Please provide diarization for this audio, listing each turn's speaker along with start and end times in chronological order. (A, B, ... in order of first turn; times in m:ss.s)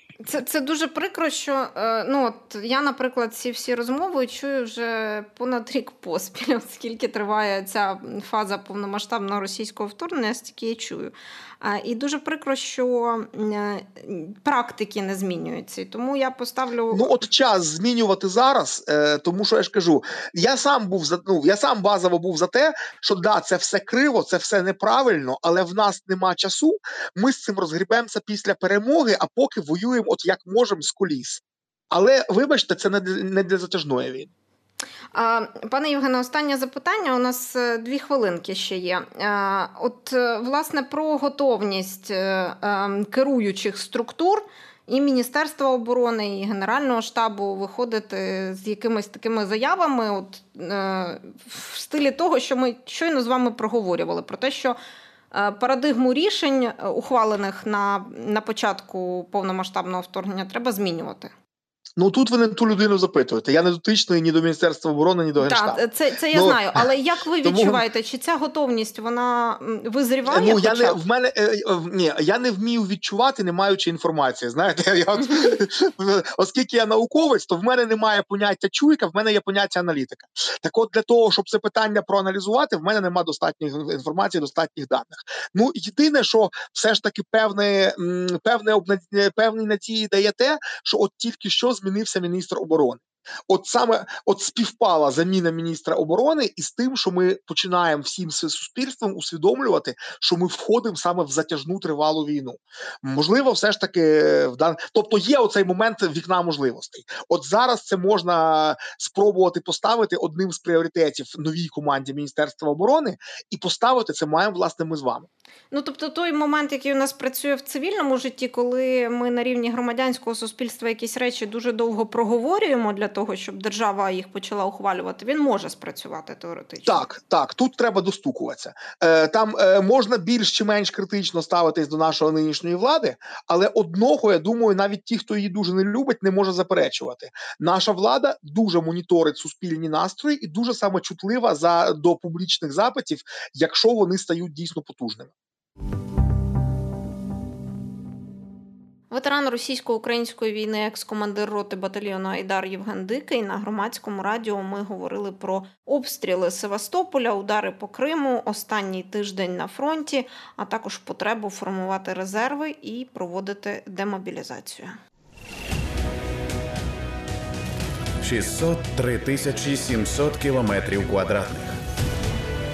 0:00.2-0:17.2 A
0:16.9-0:34.3 B
0:35.1-0:54.8 A
0:55.3-1:01.3 A
1:02.0-1:05.8 B
1:05.4-1:11.0 A
1:06.3-1:06.8 B
1:07.4-1:07.8 B
1:10.3-1:55.3 B
1:55.7-2:07.0 A
2:06.8-2:25.3 B
2:29.1-2:45.0 A
2:48.2-2:51.8 C